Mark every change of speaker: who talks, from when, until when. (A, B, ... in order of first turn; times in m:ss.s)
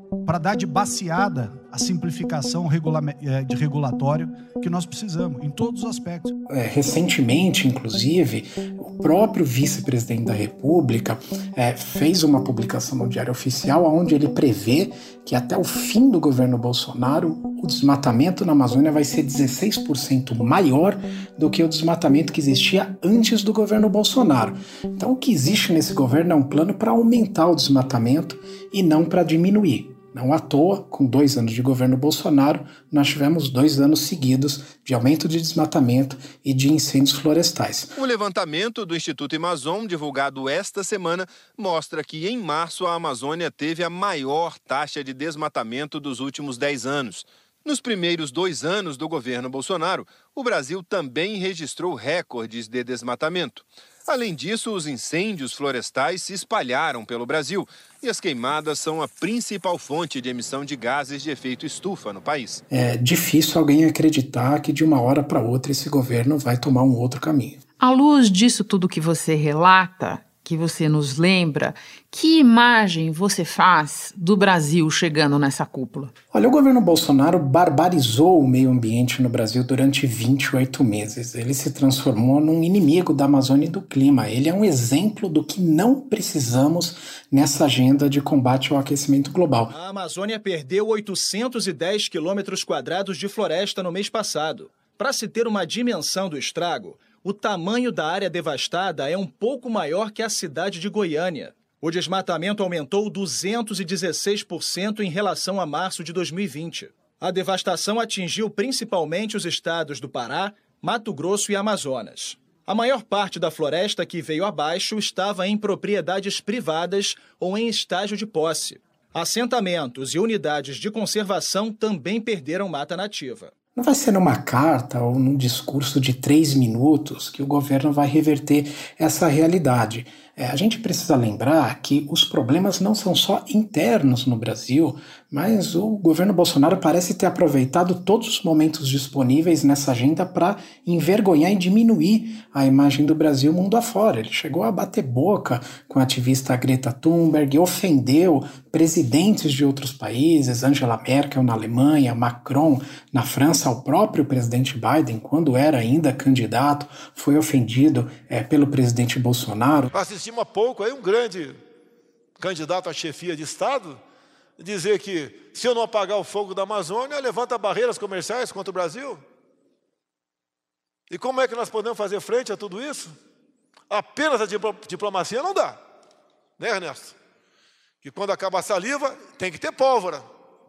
0:00.2-0:06.3 A
0:06.5-0:37.9 B
0:38.0-1:02.6 C
1:02.7-1:07.6 B
1:07.8-1:16.1 D
1:16.3-1:29.7 B
1:29.7-2:03.5 E
2:03.8-2:39.9 B
2:39.9-2:41.6 F
2:42.4-2:44.0 F
2:44.6-2:49.2 F
2:51.1-2:53.1 F
2:53.9-2:55.8 F
2:56.6-2:57.1 F
2:58.0-3:00.2 F